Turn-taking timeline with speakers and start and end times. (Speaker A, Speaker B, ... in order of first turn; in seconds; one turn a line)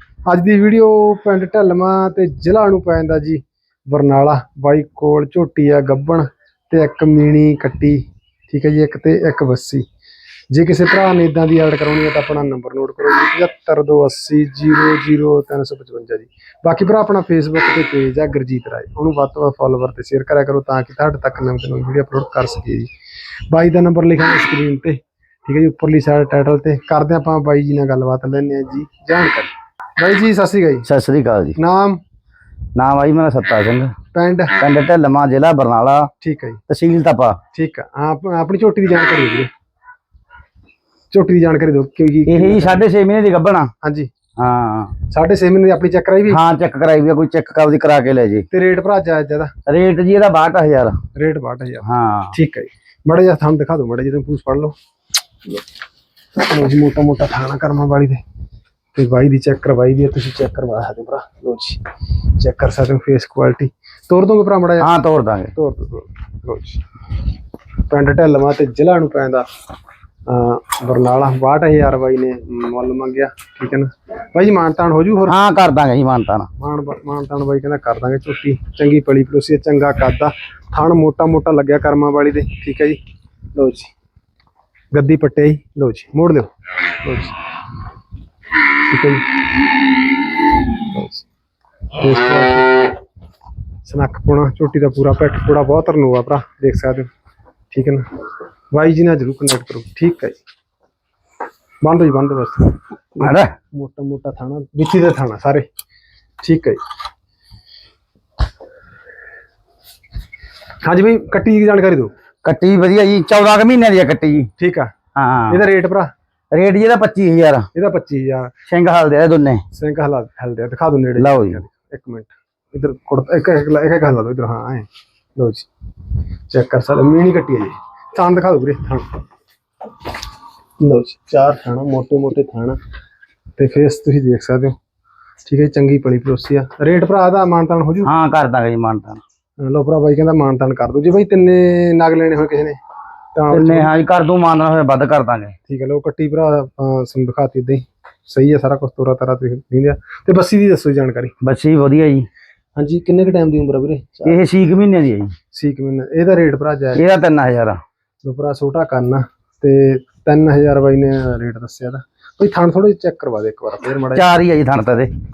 Speaker A: 0.3-9.8
Speaker A: 10.5-22.9
Speaker A: 23.5-30.9
Speaker B: 30.9-31.6
Speaker A: 31.6-32.0
Speaker B: 32.8-33.9
Speaker A: 34.1-34.6
Speaker B: 34.6-36.1
Speaker A: 36.2-36.6
Speaker B: 36.7-37.4
Speaker A: 37.5-39.5
Speaker A: 41.1-42.9
Speaker B: 42.3-43.7
Speaker A: 43.8-44.1
Speaker B: 44.4-45.0
Speaker A: 45.1-46.4
Speaker B: 46.3-48.5
Speaker A: 48.5-49.5
Speaker B: 49.7-50.9
Speaker A: 51.1-54.8
Speaker B: 51.8-52.4
Speaker A: 56.4-58.2
Speaker A: 59.0-61.8
Speaker A: 62.4-64.9
Speaker B: 64.8-65.5
Speaker A: 65.5-66.8
Speaker A: 67.9-69.5
Speaker A: 70.3-75.4
Speaker B: 75.3-76.5
Speaker A: 76.6-83.0
Speaker A: 83.5-83.9
Speaker A: 84.9-86.5
Speaker A: 87.0-87.3
Speaker A: 88.9-89.3
Speaker A: 90.9-91.2
Speaker A: 92.0-92.7
Speaker A: 93.8-97.1
Speaker A: 97.7-98.0
Speaker A: 98.7-100.4
Speaker A: 101.8-102.8
Speaker B: 103.2-103.5
Speaker A: 103.7-105.7
Speaker A: 106.4-106.8
Speaker A: 110.8-112.1
Speaker B: 112.4-114.5
Speaker A: 114.6-114.9
Speaker B: 115.2-115.6
Speaker A: 115.5-116.1
Speaker B: 116.5-117.7
Speaker A: 117.8-118.5
Speaker B: 118.7-119.6
Speaker A: 119.7-125.7
Speaker B: 121.2-121.6
Speaker A: 126.5-129.2
Speaker A: 130.8-132.8
Speaker A: 133.6-134.8
Speaker A: 135.5-138.1
Speaker B: 138.0-139.2
Speaker A: 139.6-142.8
Speaker A: 143.4-143.9
Speaker B: 143.5-145.5
Speaker A: 145.7-151.3
Speaker B: 151.4-152.3
Speaker A: 152.8-154.4
Speaker B: 154.3-155.3
Speaker A: 155.5-157.0
Speaker B: 156.9-157.8
Speaker A: 158.2-164.4
Speaker B: 164.2-165.1